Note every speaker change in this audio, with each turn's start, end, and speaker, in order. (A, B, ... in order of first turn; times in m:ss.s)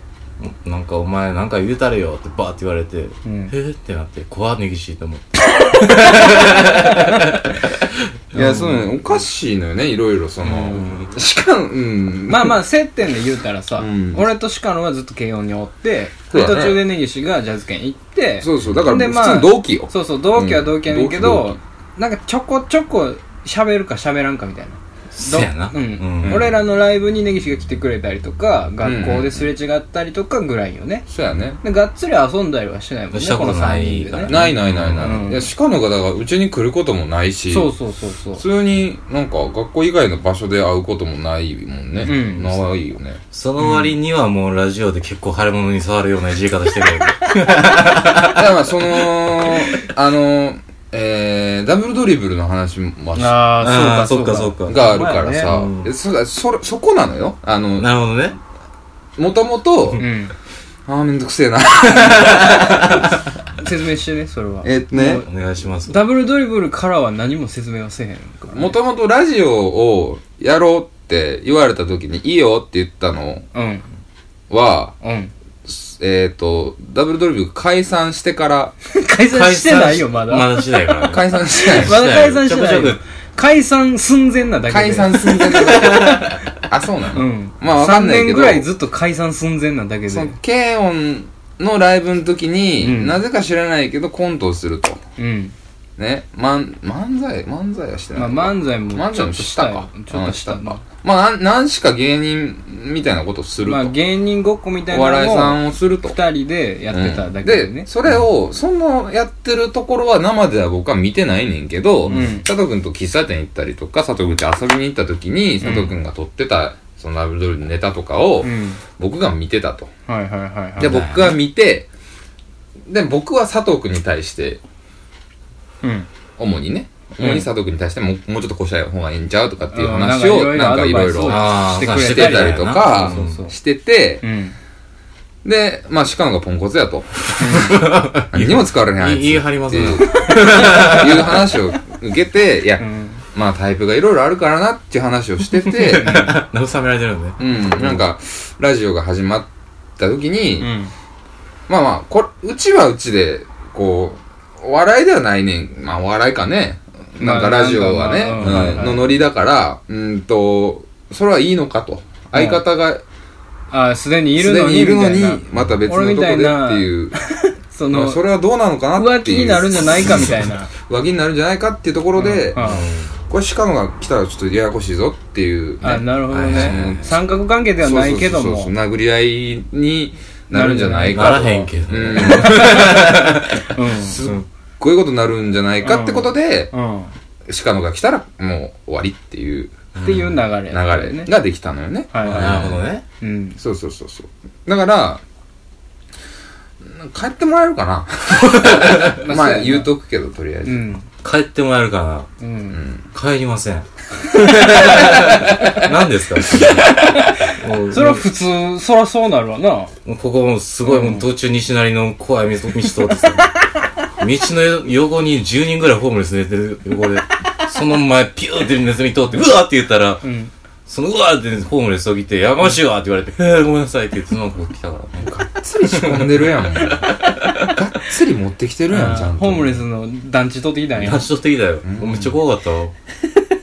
0:00.4-0:08.8 A
0:03.2-0:03.5 B
0:05.9-0:06.8 B
0:08.3-0:12.6 C
0:10.5-0:10.9 B
0:10.5-0:11.1 A
0:12.3-0:31.1 B
0:13.8-0:14.3 C
0:16.3-0:16.9 C
0:18.4-0:21.6 C
0:25.1-0:26.5 A
0:26.2-0:26.6 C
0:28.8-0:29.5 C
0:31.1-0:31.6 C
0:31.6-0:34.4 B
0:33.1-0:35.3 A
0:34.3-0:37.7 C
0:35.0-0:35.4 B
0:37.5-0:38.4 B
0:38.4-0:43.8 C
0:42.0-0:42.6 B
0:43.3-0:48.4 A
0:48.1-0:53.4 C
0:53.2-0:55.6 B
0:53.6-0:55.9 A
0:54.7-0:57.9 C
0:57.8-0:58.4 A
0:59.2-1:00.0 C
1:00.0-1:00.3 B
1:00.9-1:03.2 C
1:02.1-1:03.1 A
1:03.6-1:05.3 B
1:04.6-1:05.3 C
1:05.1-1:06.0 A
1:05.9-1:08.8 B
1:08.5-1:13.5 C
1:13.5-1:13.9 B
1:14.5-1:15.0 C
1:15.0-1:15.3 B
1:15.6-1:18.8 C
1:18.9-1:20.7 B
1:19.3-1:23.0 A
1:21.1-1:22.0 C
1:21.6-1:26.3 B
1:24.7-1:28.7 C
1:27.1-1:30.4 B
1:30.1-1:35.0 C
1:32.8-1:33.2 B
1:35.2-1:35.6 B
1:36.0-1:44.0 C
1:38.2-1:40.8 B
1:43.6-1:47.9 B
1:44.9-1:46.2 C
1:46.9-1:59.9 C
1:52.1-1:52.5 B
1:52.1-1:52.4 A
1:55.6-1:56.0 B
1:58.4-1:58.8 B
2:00.1-2:01.0 B
2:00.8-2:01.9 C
2:00.8-2:01.3 A
2:02.9-2:04.6 C
2:05.8-2:06.1 B
2:06.4-2:14.2 C
2:07.2-2:07.5 B
2:09.7-2:13.6 B
2:11.2-2:13.4 A
2:14.2-2:14.6 B
2:15.4-2:26.4 C
2:17.4-2:17.6 B
2:17.5-2:21.5 A
2:20.2-2:21.0 B
2:22.8-2:23.2 B
2:25.7-2:28.0 A
2:26.0-2:26.4 B
2:27.4-2:30.7 C
2:30.6-2:30.9 B
2:31.7-2:43.0 C
2:37.2-2:39.2 B
2:42.3-2:42.6 B
2:43.7-2:48.2 B
2:44.4-2:47.2 C
2:47.9-2:57.3 C
2:49.0-2:50.7 B
2:52.2-2:52.9 B
2:52.6-2:53.1 A
2:55.8-2:58.7 B
2:56.3-2:57.2 A
2:57.8-3:06.7 C
3:00.5-3:01.5 B
3:01.0-3:03.7 A
3:02.1-3:04.2 B
3:04.2-3:04.4 A
3:05.8-3:07.1 B
3:07.5-3:09.8 C
3:10.0-3:10.4 A
3:10.0-3:11.3 B
3:10.7-3:12.9 C
3:12.1-3:12.7 B
3:12.2-3:13.0 A
3:13.2-3:13.6 B
3:13.6-3:15.2 C
3:16.8-3:20.9 C
3:18.6-3:19.1 A
3:19.0-3:19.9 B
3:20.6-3:21.1 B
3:21.2-3:22.3 A
3:22.4-3:22.8 B
3:22.7-3:23.1 C
3:23.1-3:28.2 A
3:24.6-3:25.2 B
3:26.6-3:29.9 B
3:30.0-3:33.5 A
3:30.8-3:31.3 B
3:34.2-3:40.2 A
3:40.2-3:40.5 B
3:40.9-3:45.3 A
3:45.2-3:49.8 C
3:46.0-3:47.5 A
3:48.9-3:51.3 B
3:51.0-3:52.9 A
3:51.8-3:52.4 C